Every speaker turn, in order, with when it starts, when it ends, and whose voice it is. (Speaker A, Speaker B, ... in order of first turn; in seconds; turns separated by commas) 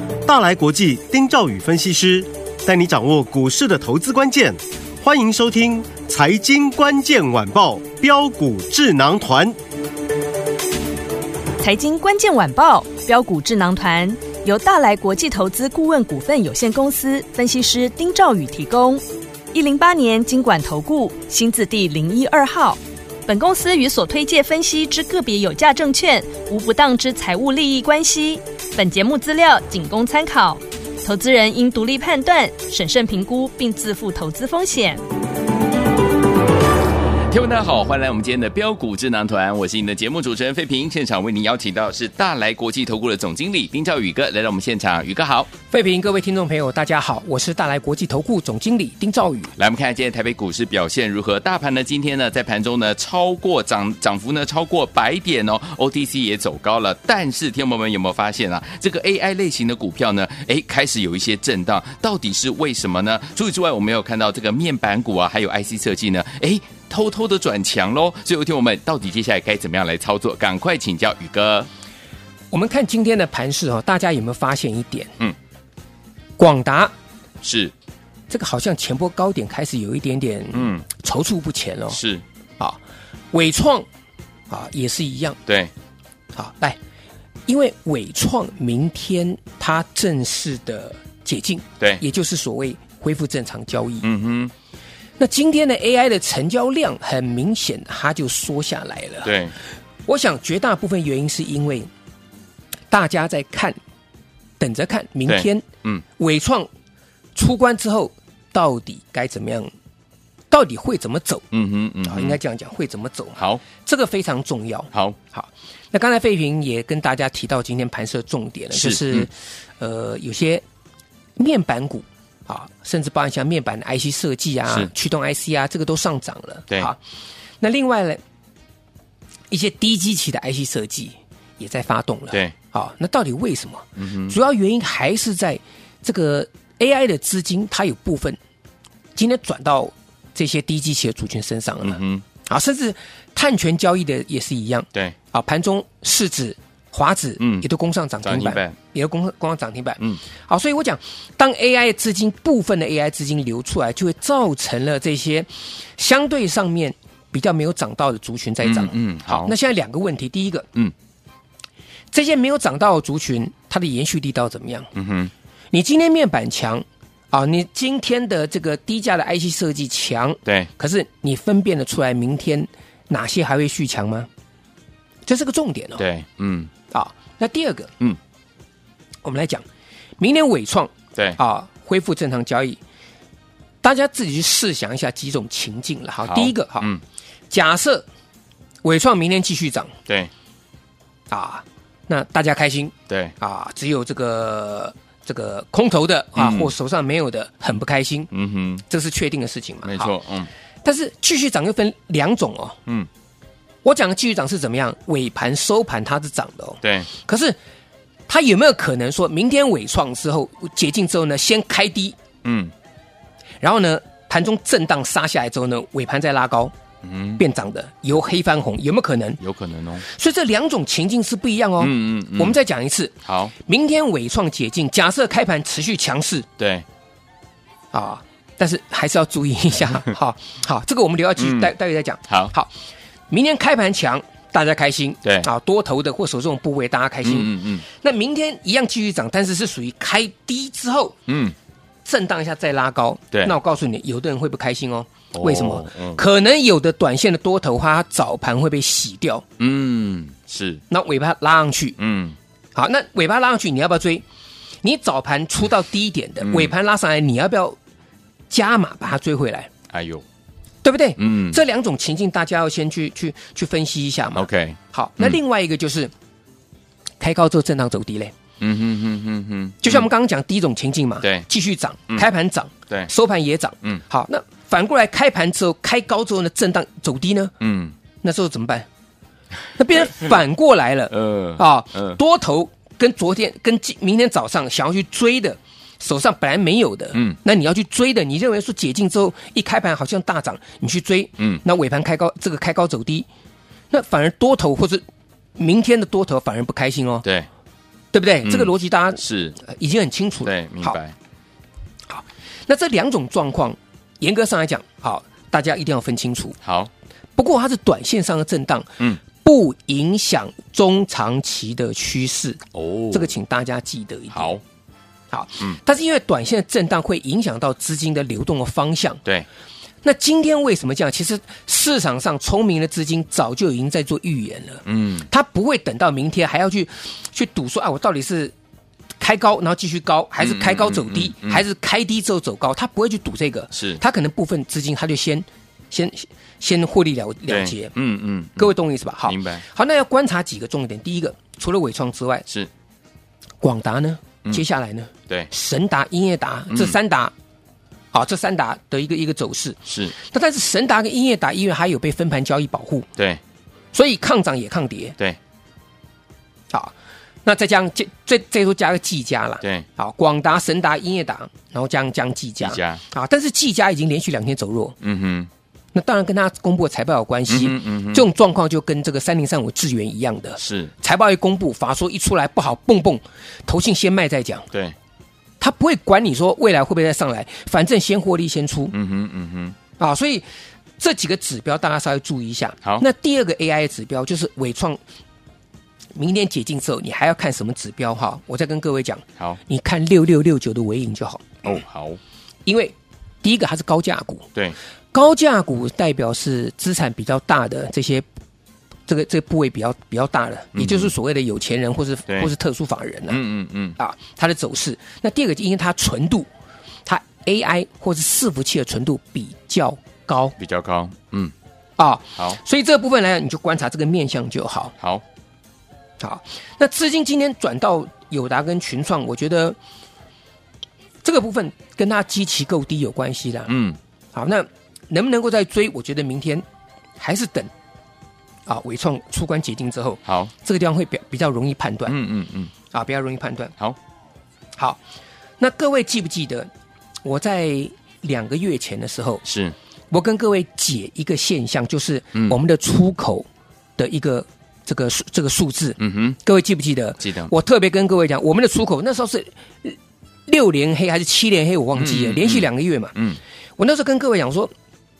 Speaker A: 0.2-9.6, Speaker B: 11.6-35.0, Speaker C: 37.3-45.5, Speaker D: 45.7-49.5, Speaker C: 49.6-71.7, Speaker D: 72.5-75.1, Speaker D: 76.4-76.9, Speaker C: 77.4-77.7, Speaker D: 78.3-82.0, Speaker C: 80.5-80.8, Speaker C: 81.9-82.2, Speaker D: 83.3-83.8, Speaker D: 84.5-85.4, Speaker D: 86.3-86.8, Speaker D: 87.5-94.1, Speaker C: 94.0-94.5, Speaker D: 95.2-99.4, Speaker C: 99.2-99.5, Speaker D: 100.0-101.9, Speaker D: 102.9-103.8, Speaker D: 104.6-105.7, Speaker C: 105.2-106.0, Speaker D: 106.2-106.7, Speaker D: 107.3-109.7, Speaker D: 110.5-111.5, Speaker C: 111.5-112.4, Speaker D: 112.0-120.6, Speaker C: 113.4-113.6, Speaker C: 114.9-115.2, Speaker C: 118.7-119.3, Speaker D: 121.4-127.0, Speaker D: 127.6-128.2, Speaker D: 129.5-138.4, Speaker C: 134.0-134.3, Speaker D: 139.1-160.7, Speaker C: 141.8-142.2, Speaker C: 147.4-147.6, Speaker C: 148.2-148.7, Speaker C: 158.6-159.5, Speaker D: 162.1-164.9, Speaker C: 164.9-165.3, Speaker D: 165.7-174.3, Speaker D: 175.2-176.0, Speaker C: 176.0-176.7, Speaker D: 176.9-177.9, Speaker D: 179.2-179.6, Speaker D: 180.2-182.8, Speaker D: 183.8-186.9, Speaker C: 186.2-187.0, Speaker D: 187.5-188.1, Speaker D: 188.8-189.9, Speaker D: 191.3-198.3, Speaker C: 196.3-196.7, Speaker C: 198.3-198.8, Speaker D: 198.9-200.1, Speaker C: 199.8-200.5, Speaker D: 200.8-202.8, Speaker D: 203.8-207.6, Speaker C: 206.8-207.1, Speaker D: 208.3-212.2, Speaker C: 212.4-212.7, Speaker D: 213.6-216.7, Speaker C: 217.0-217.4, Speaker D: 217.4-219.4, Speaker C: 219.4-220.0, Speaker D: 220.0-226.5, Speaker C: 221.8-222.6, Speaker C: 223.2-223.5, Speaker C: 226.6-226.8, Speaker D: 227.9-232.7, Speaker C: 231.4-231.7, Speaker D: 233.3-241.2, Speaker C: 237.2-237.8, Speaker C: 241.3-241.5, Speaker D: 242.0-249.4, Speaker C: 245.3-246.2, Speaker C: 249.6-250.8, Speaker D: 250.9-251.9, Speaker C: 252.0-252.4, Speaker D: 252.7-254.2, Speaker D: 254.8-257.8, Speaker C: 256.4-256.7, Speaker D: 258.5-259.7, Speaker C: 259.9-260.2, Speaker D: 260.8-266.1, Speaker C: 261.2-261.6, Speaker C: 264.3-265.4, Speaker D: 267.2-268.3, Speaker C: 268.6-270.1, Speaker D: 269.8-277.5, Speaker C: 271.2-271.5, Speaker C: 277.6-277.9, Speaker D: 278.2-278.9, Speaker D: 279.7-293.3, Speaker C: 281.1-282.2, Speaker D: 293.9-295.0, Speaker D: 295.6-297.2, Speaker C: 297.2-297.5, Speaker D: 298.1-301.0, Speaker C: 298.4-299.6, Speaker C: 300.4-301.1, Speaker D: 302.1-306.6, Speaker C: 306.6-306.9, Speaker D: 307.4-314.6, Speaker C: 312.7-313.3, Speaker C: 314.3-314.6, Speaker D: 315.3-319.2, Speaker D: 320.0-328.5, Speaker C: 324.9-325.3, Speaker D: 329.2-337.9, Speaker C: 330.4-331.6, Speaker C: 333.7-334.0, Speaker C: 337.5-338.7, Speaker D: 338.6-342.4, Speaker C: 339.2-339.6, Speaker D: 343.6-347.3, Speaker D: 348.1-353.1, Speaker C: 349.9-350.1, Speaker C: 353.1-353.4, Speaker D: 353.9-355.1, Speaker D: 357.4-364.9, Speaker C: 362.6-363.0, Speaker C: 365.0-365.5, Speaker D: 365.9-374.6, Speaker C: 367.5-368.2, Speaker C: 370.6-370.9, Speaker D: 375.6-378.9, Speaker C: 378.9-379.7, Speaker D: 380.0-380.4, Speaker D: 381.0-385.0, Speaker D: 386.1-391.7, Speaker C: 391.6-392.2, Speaker D: 392.6-394.5, Speaker D: 395.1-398.2, Speaker D: 399.1-403.4, Speaker C: 400.7-401.1, Speaker C: 403.3-403.9, Speaker D: 404.0-406.5, Speaker D: 407.1-410.6, Speaker C: 410.6-411.5, Speaker D: 412.0-414.9, Speaker D: 416.2-419.8, Speaker D: 421.2-423.7, Speaker C: 423.7-424.0, Speaker D: 424.3-426.6, Speaker D: 427.2-427.7, Speaker D: 428.6-432.1, Speaker C: 430.2-430.5, Speaker C: 432.1-432.7, Speaker D: 432.9-433.7, Speaker D: 435.6-436.7, Speaker D: 437.2-439.4, Speaker C: 439.4-439.7, Speaker D: 440.1-443.5, Speaker D: 444.0-453.1, Speaker C: 446.0-446.4, Speaker C: 447.2-447.5, Speaker C: 451.9-453.4, Speaker D: 453.8-454.7